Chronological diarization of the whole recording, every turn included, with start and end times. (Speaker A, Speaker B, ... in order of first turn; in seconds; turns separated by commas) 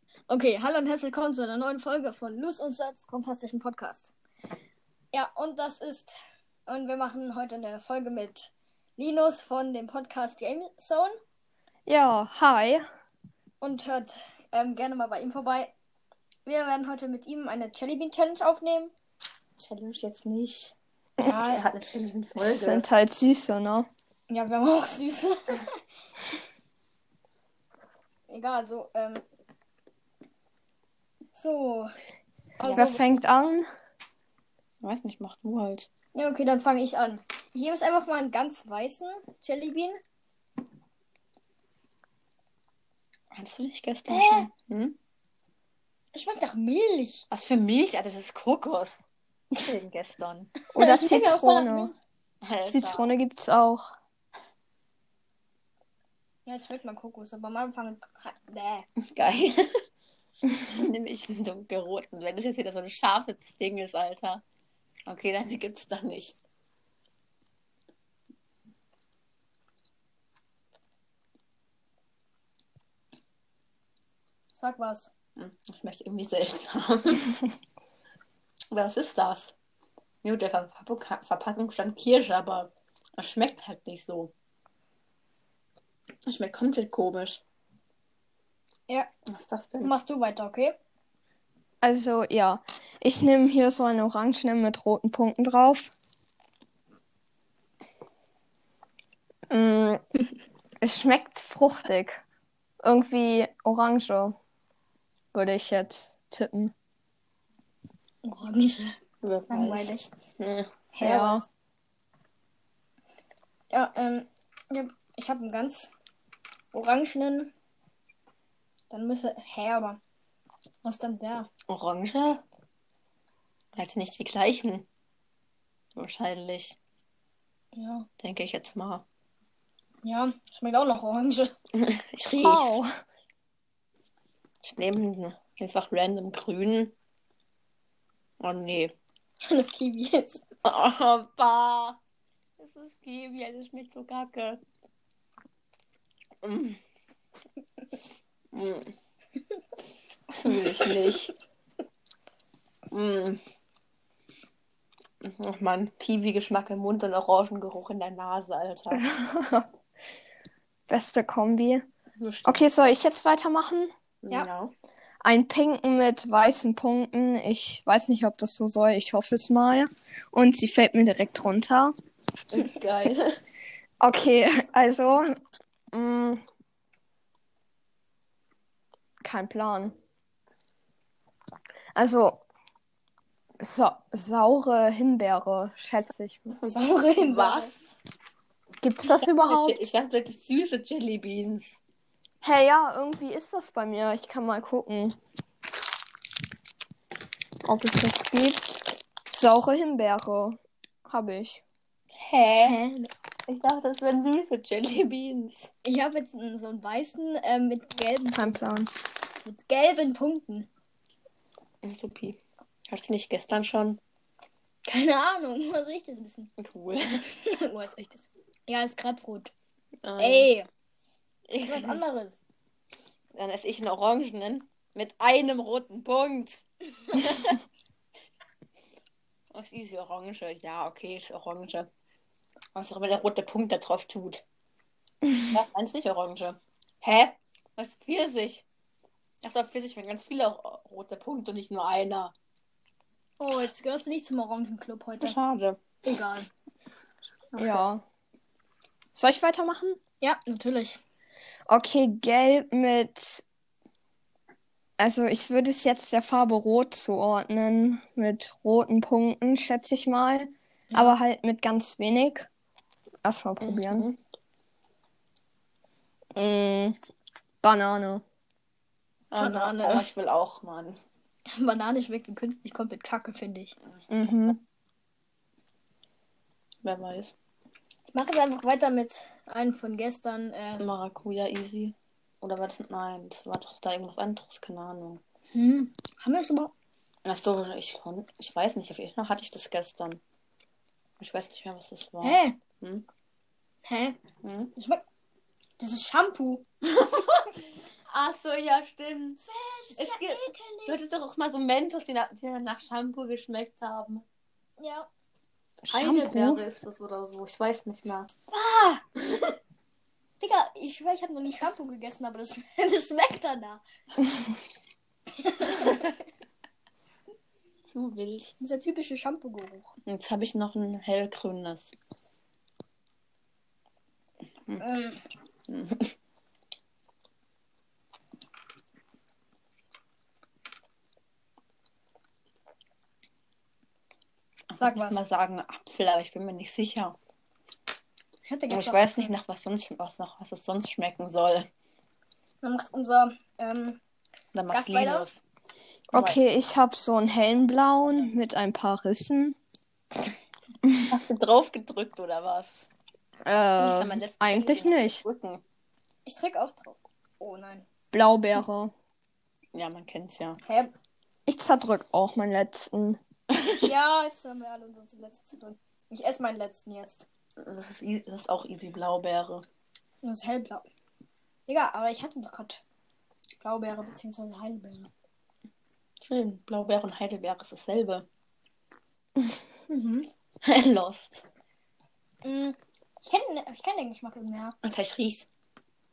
Speaker A: 0.3-4.1, Speaker A: 5.1-6.2, Speaker A: 6.7-11.2, Speaker B: 11.9-12.8, Speaker A: 13.6-15.7, Speaker A: 16.5-18.9, Speaker C: 19.6-20.8, Speaker A: 21.2-21.6, Speaker C: 21.3-22.9, Speaker B: 22.4-23.9, Speaker A: 24.3-25.6, Speaker A: 28.3-29.2, Speaker A: 31.3-31.9, Speaker A: 32.6-33.2, Speaker C: 32.6-32.9, Speaker B: 32.7-33.7, Speaker C: 34.8-35.9, Speaker A: 36.1-40.0, Speaker C: 43.3-45.0, Speaker A: 44.1-44.5, Speaker A: 46.1-47.2, Speaker C: 47.3-49.0, Speaker C: 49.5-50.5, Speaker B: 50.8-51.9, Speaker A: 50.8-51.9, Speaker C: 52.4-53.1, Speaker B: 52.7-53.8, Speaker A: 56.5-58.9, Speaker C: 59.1-59.7, Speaker C: 60.6-64.4, Speaker C: 65.1-66.4, Speaker A: 74.5-75.1, Speaker C: 75.4-77.4, Speaker C: 78.7-79.5, Speaker C: 80.2-84.3, Speaker C: 86.3-87.4, Speaker C: 89.3-89.9, Speaker A: 89.8-90.8, Speaker B: 91.8-95.9, Speaker B: 99.5-100.0, Speaker B: 100.8-102.2, Speaker B: 102.8-104.3, Speaker B: 105.3-106.7, Speaker A: 108.2-109.0, Speaker C: 109.2-110.7, Speaker A: 109.5-110.1, Speaker A: 110.9-111.5, Speaker B: 111.0-111.4, Speaker A: 113.7-115.9, Speaker A: 116.7-117.5, Speaker A: 118.9-120.0, Speaker A: 120.8-121.5, Speaker C: 121.7-122.4, Speaker C: 123.8-124.9, Speaker C: 126.0-126.8, Speaker A: 127.8-128.1, Speaker C: 128.2-129.1, Speaker A: 130.0-131.5, Speaker C: 131.7-132.8, Speaker B: 132.4-133.0, Speaker C: 134.6-136.9, Speaker C: 138.4-138.9, Speaker A: 139.5-140.4, Speaker C: 140.6-142.0, Speaker C: 142.6-144.6, Speaker C: 146.4-146.8, Speaker C: 148.5-148.9, Speaker C: 150.3-151.3, Speaker C: 152.9-153.4, Speaker C: 155.2-159.0, Speaker B: 158.9-159.7, Speaker B: 160.9-161.9, Speaker C: 162.2-162.9, Speaker B: 162.4-163.9, Speaker C: 164.2-164.7, Speaker B: 165.2-171.9, Speaker C: 172.5-173.4, Speaker B: 174.0-175.3, Speaker B: 175.9-176.4, Speaker B: 179.2-179.9, Speaker B: 181.9-182.4, Speaker B: 183.6-186.7, Speaker A: 186.6-187.7, Speaker C: 187.2-188.0, Speaker B: 188.8-189.8, Speaker C: 189.1-191.8, Speaker B: 192.4-195.2, Speaker B: 197.6-201.6, Speaker C: 202.2-202.8, Speaker A: 202.6-203.1, Speaker C: 203.5-205.7, Speaker A: 205.8-208.6, Speaker B: 208.3-208.9, Speaker A: 209.4-210.7, Speaker C: 211.8-214.0, Speaker A: 214.9-216.5, Speaker C: 216.6-217.3, Speaker A: 217.5-219.5, Speaker C: 220.0-220.5, Speaker A: 220.2-220.7, Speaker C: 221.5-222.0, Speaker A: 221.6-222.4, Speaker C: 223.3-227.6, Speaker C: 229.5-231.9, Speaker C: 232.7-234.4, Speaker C: 235.4-238.7, Speaker C: 239.4-242.3, Speaker A: 243.4-245.3, Speaker C: 245.2-245.8, Speaker A: 246.0-246.5, Speaker C: 247.5-247.9, Speaker B: 247.6-248.0, Speaker B: 249.2-250.0, Speaker A: 250.2-251.0, Speaker B: 251.7-253.4, Speaker B: 255.0-262.5, Speaker B: 263.2-264.1, Speaker C: 263.6-264.2, Speaker B: 266.4-267.0, Speaker B: 267.6-268.2, Speaker C: 269.3-271.0, Speaker A: 269.4-270.1, Speaker A: 271.6-273.8, Speaker B: 274.1-274.6, Speaker C: 276.8-277.4, Speaker A: 278.1-280.9, Speaker C: 280.8-285.2, Speaker A: 285.5-286.7, Speaker C: 287.2-290.2, Speaker C: 291.2-293.1, Speaker A: 292.2-292.6, Speaker A: 293.9-294.2, Speaker C: 294.4-294.7, Speaker A: 294.8-295.0, Speaker A: 295.8-296.6, Speaker C: 298.1-304.2, Speaker A: 299.5-301.0, Speaker A: 304.8-305.1, Speaker B: 305.9-306.6, Speaker C: 305.9-308.3, Speaker A: 308.5-309.0, Speaker A: 310.4-313.8, Speaker A: 315.4-316.1, Speaker C: 317.9-318.5, Speaker A: 318.6-319.9, Speaker C: 320.1-321.9, Speaker A: 324.8-325.2, Speaker C: 325.7-326.1, Speaker C: 334.7-337.2, Speaker A: 334.8-335.2, Speaker A: 338.5-339.3, Speaker C: 338.7-341.7, Speaker A: 342.6-344.0, Speaker C: 344.5-345.4, Speaker A: 344.7-345.3, Speaker C: 346.1-346.5, Speaker B: 346.1-349.6, Speaker C: 351.1-352.9, Speaker B: 353.4-355.2, Speaker C: 353.8-355.6, Speaker A: 356.3-357.9, Speaker B: 358.1-358.9, Speaker C: 359.7-360.6, Speaker A: 360.6-360.9, Speaker B: 361.5-363.2, Speaker A: 363.8-367.2, Speaker C: 367.6-369.6, Speaker A: 370.2-370.8, Speaker A: 371.7-372.8, Speaker A: 373.6-375.1, Speaker C: 376.2-378.3, Speaker A: 379.9-380.3, Speaker C: 380.6-381.5, Speaker A: 382.4-384.8, Speaker C: 384.8-385.5